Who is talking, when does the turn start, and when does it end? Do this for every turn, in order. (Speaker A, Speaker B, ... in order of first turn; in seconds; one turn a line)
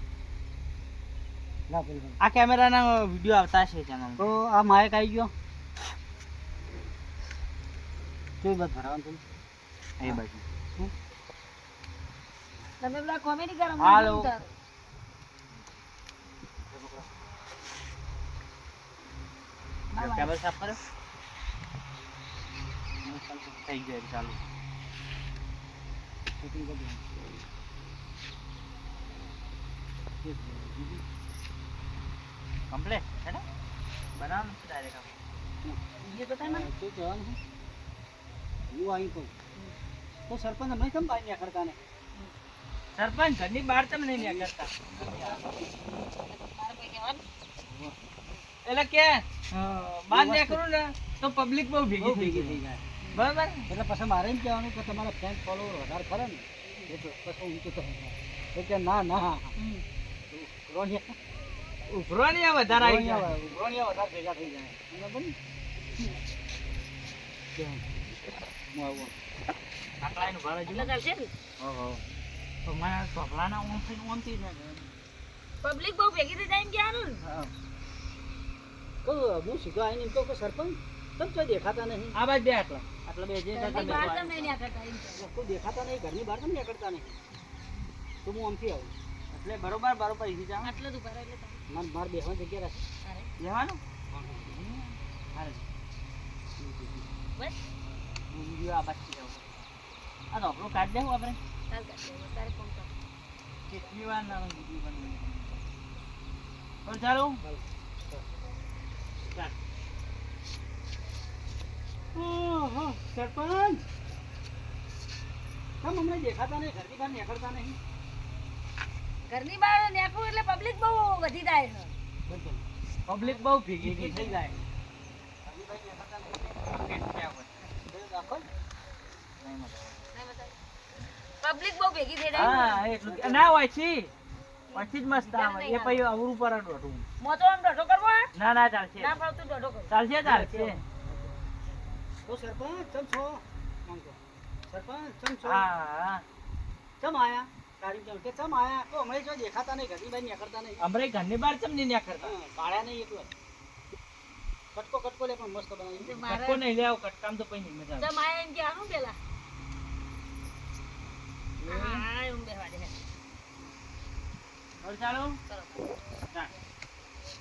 Speaker A: 1.7-2.2
Speaker B: 2.2-4.3
Speaker A: 4.2-5.3
Speaker A: 8.4-9.2
Speaker B: 10.0-10.4
Speaker C: 12.8-14.5
Speaker B: 13.8-14.3
Speaker A: 16.7-17.1
Speaker C: 19.9-20.3
Speaker B: 20.0-20.8
Speaker B: 23.0-24.4
Speaker A: 26.3-27.3
Speaker A: 30.2-31.0
Speaker B: 32.7-33.4
Speaker B: 34.1-35.1
Speaker C: 36.0-36.7
Speaker A: 36.4-37.4
Speaker A: 38.7-39.3
Speaker A: 40.3-41.8
Speaker B: 43.0-45.4
Speaker A: 44.1-45.7
Speaker C: 46.1-47.2
Speaker A: 47.7-47.9
Speaker B: 48.6-52.6
Speaker A: 50.1-50.6
Speaker A: 52.0-52.9
Speaker B: 53.1-53.7
Speaker A: 53.7-59.5
Speaker C: 59.6-59.8
Speaker A: 60.3-61.1
Speaker B: 61.9-63.4
Speaker A: 62.7-65.3
Speaker A: 67.6-67.8
Speaker A: 68.7-69.1
Speaker B: 70.0-70.9
Speaker C: 70.7-71.3
Speaker B: 71.6-72.0
Speaker B: 72.6-74.9
Speaker C: 75.6-77.2
Speaker A: 79.0-82.2
Speaker B: 82.1-84.5
Speaker C: 83.5-85.3
Speaker A: 83.7-84.1
Speaker A: 85.1-87.2
Speaker A: 88.2-88.9
Speaker B: 89.3-90.7
Speaker C: 90.6-91.6
Speaker A: 91.7-92.8
Speaker C: 93.0-93.3
Speaker B: 93.4-93.8
Speaker A: 94.1-94.5
Speaker B: 94.5-95.6
Speaker A: 96.6-97.1
Speaker B: 98.3-99.5
Speaker B: 100.3-101.4
Speaker C: 101.7-102.9
Speaker B: 103.7-105.6
Speaker B: 106.8-107.4
Speaker A: 107.4-108.2
Speaker A: 112.1-113.8
Speaker A: 115.8-117.8
Speaker C: 119.3-121.9
Speaker A: 122.2-122.6
Speaker B: 123.1-124.5
Speaker A: 123.8-124.5
Speaker A: 125.4-126.7
Speaker B: 126.7-127.6
Speaker A: 127.8-128.5
Speaker B: 129.4-130.0
Speaker C: 130.1-130.5
Speaker C: 131.4-132.8
Speaker B: 132.3-134.1
Speaker A: 133.0-133.5
Speaker C: 134.7-136.1
Speaker B: 134.7-137.0
Speaker C: 137.2-138.3
Speaker B: 138.3-139.2
Speaker C: 139.0-139.9
Speaker B: 139.9-140.8
Speaker A: 140.2-141.3
Speaker A: 142.3-145.7
Speaker B: 145.4-146.2
Speaker A: 147.0-150.8
Speaker B: 150.8-152.3
Speaker A: 152.2-153.3
Speaker A: 154.7-156.2
Speaker C: 156.0-156.6
Speaker B: 156.2-158.1
Speaker C: 158.0-159.2
Speaker B: 161.6-162.0
Speaker C: 161.6-162.9
Speaker B: 164.8-165.4
Speaker C: 165.5-165.9